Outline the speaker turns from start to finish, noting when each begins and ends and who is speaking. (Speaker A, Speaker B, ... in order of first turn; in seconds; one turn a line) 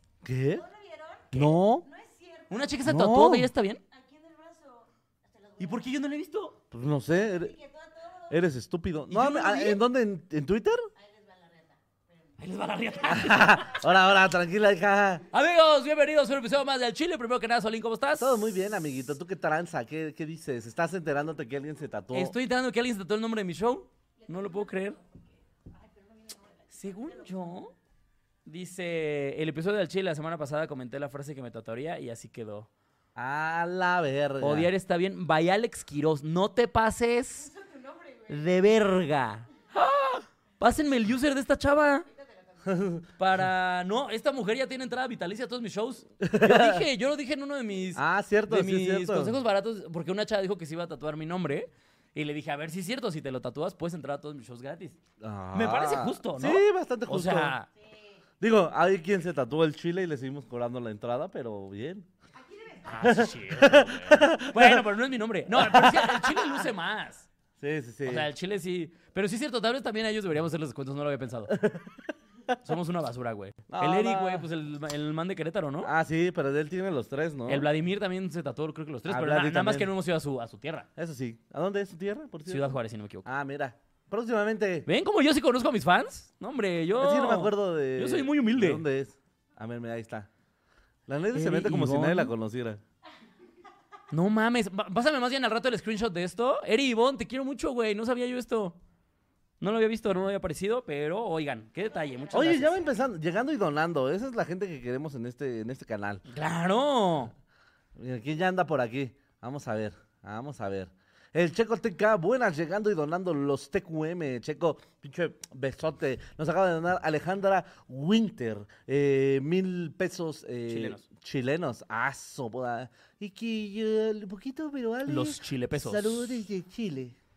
Speaker A: 0.2-0.6
Speaker B: 0.5-2.9
Speaker A: 1.3-1.9
Speaker C: 2.5-3.8
Speaker A: 2.8-3.5
Speaker B: 3.9-5.9
Speaker C: 5.6-6.6
Speaker A: 6.7-7.5
Speaker B: 7.1-8.4
Speaker A: 8.3-10.9
Speaker C: 9.1-9.8
Speaker B: 10.9-13.9
Speaker C: 12.4-13.8
Speaker A: 13.1-15.2
Speaker C: 15.3-18.4
Speaker A: 18.2-22.3
Speaker C: 22.1-25.0
Speaker B: 24.2-27.6
Speaker C: 26.7-27.7
Speaker C: 28.4-32.7
Speaker A: 33.1-34.7
Speaker C: 34.4-37.5
Speaker B: 37.4-38.5
Speaker C: 38.3-42.0
Speaker B: 42.1-42.8
Speaker A: 42.6-43.0
Speaker C: 43.2-55.0
Speaker A: 46.2-46.8
Speaker A: 48.0-49.4
Speaker A: 55.2-57.5
Speaker C: 55.5-57.7
Speaker B: 57.7-58.2
Speaker A: 58.4-62.1
Speaker B: 62.3-63.3
Speaker C: 62.8-67.3
Speaker A: 63.0-64.9
Speaker A: 65.5-66.7
Speaker A: 67.6-68.3
Speaker C: 68.0-71.6
Speaker A: 71.5-72.1
Speaker C: 72.6-75.9
Speaker A: 73.7-74.5
Speaker A: 75.8-77.7
Speaker C: 77.5-80.9
Speaker A: 79.0-79.9
Speaker A: 81.0-84.9
Speaker C: 82.5-83.3
Speaker C: 84.8-88.8
Speaker A: 87.0-90.3
Speaker A: 91.1-92.8
Speaker C: 91.3-92.3
Speaker C: 94.1-98.8
Speaker C: 99.6-102.7
Speaker B: 101.8-103.1
Speaker A: 102.3-106.2
Speaker C: 106.2-107.3
Speaker A: 108.0-127.2
Speaker C: 120.7-121.0
Speaker C: 125.0-126.3